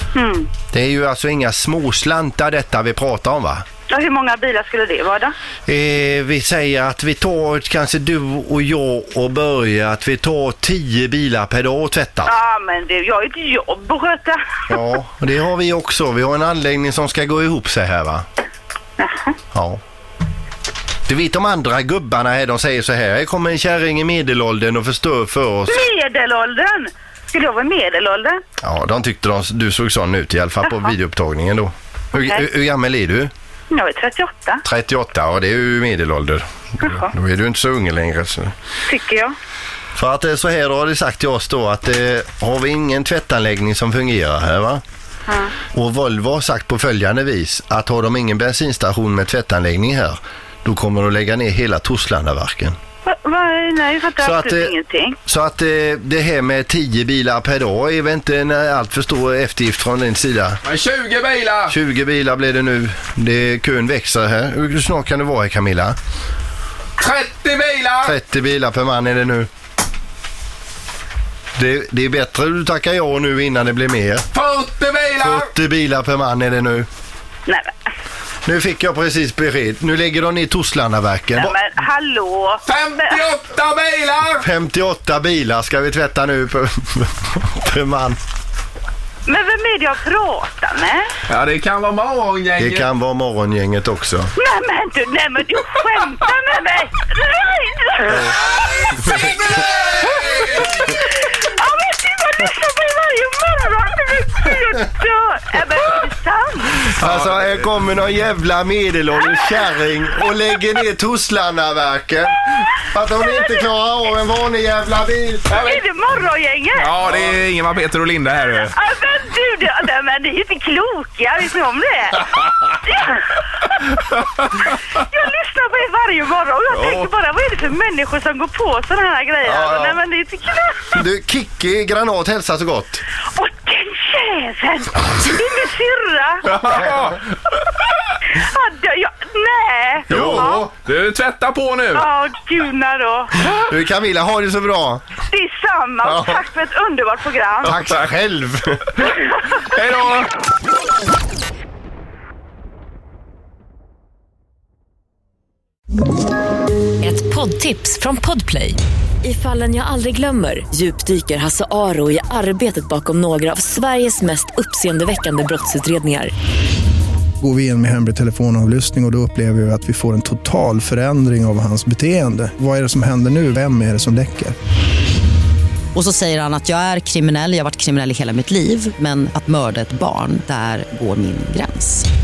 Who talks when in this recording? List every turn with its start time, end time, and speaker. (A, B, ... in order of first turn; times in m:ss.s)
0:00.1-0:00.5 A
0:00.7-0:03.6 B
0:03.9-0:05.3 A
0:05.7-0:12.3 B
0:12.2-0:14.4 A
0:14.7-0:18.2 B
0:19.0-0:19.3 A
0:19.5-0:19.8 B
0:21.1-0:25.8 B
0:25.7-0:28.4 A
0:28.6-0:33.3 B
0:32.1-0:32.4 A
0:33.7-0:34.6 A
0:34.6-0:38.5 B
0:36.8-0:37.1 A
0:38.8-0:39.3 A
0:40.0-0:44.8 B
0:45.3-0:45.6 A
0:45.7-0:52.8 B
0:53.0-0:55.2 A
0:54.2-0:54.7 B
0:55.2-1:00.6 B
1:00.6-1:01.7 C
1:01.7-1:06.0 B
1:07.0-1:08.1 C
1:08.0-1:09.5 B
1:11.6-1:14.2 B
1:14.3-1:15.5 C
1:15.2-1:16.9 B
1:17.5-1:17.7 A
1:18.4-1:21.6 B
1:21.4-1:23.2 A
1:22.6-1:24.4 C
1:24.4-1:28.2 B
1:29.2-1:31.1 A
1:31.3-1:32.9 C
1:32.6-1:34.3 B
1:34.4-1:38.4 A
1:39.0-1:39.3 A
1:39.1-1:40.7 C
1:40.0-1:46.8 A
1:46.9-1:55.5 B
1:47.1-1:47.4 C
1:49.2-1:49.6 A
1:53.2-1:53.6 A
1:55.5-1:55.8 C
1:55.5-1:57.0 A
1:56.8-1:58.7 C
1:58.5-2:03.2 A
2:04.4-2:11.0 A
2:06.7-2:07.0 C
2:09.4-2:10.0 B
2:10.9-2:13.0 B
2:13.3-2:16.8 A
2:16.4-2:17.2 C
2:18.3-2:20.7 A
2:20.1-2:20.5 B
2:20.1-2:22.0 C
2:21.9-2:23.4 A
2:23.4-2:25.0 B
2:25.3-2:27.8 A
2:26.0-2:26.4 B
2:27.6-2:29.1 B
2:29.7-2:30.3 C
2:37.0-2:46.3 D
2:47.4-2:54.6 E
2:55.9-3:02.0 F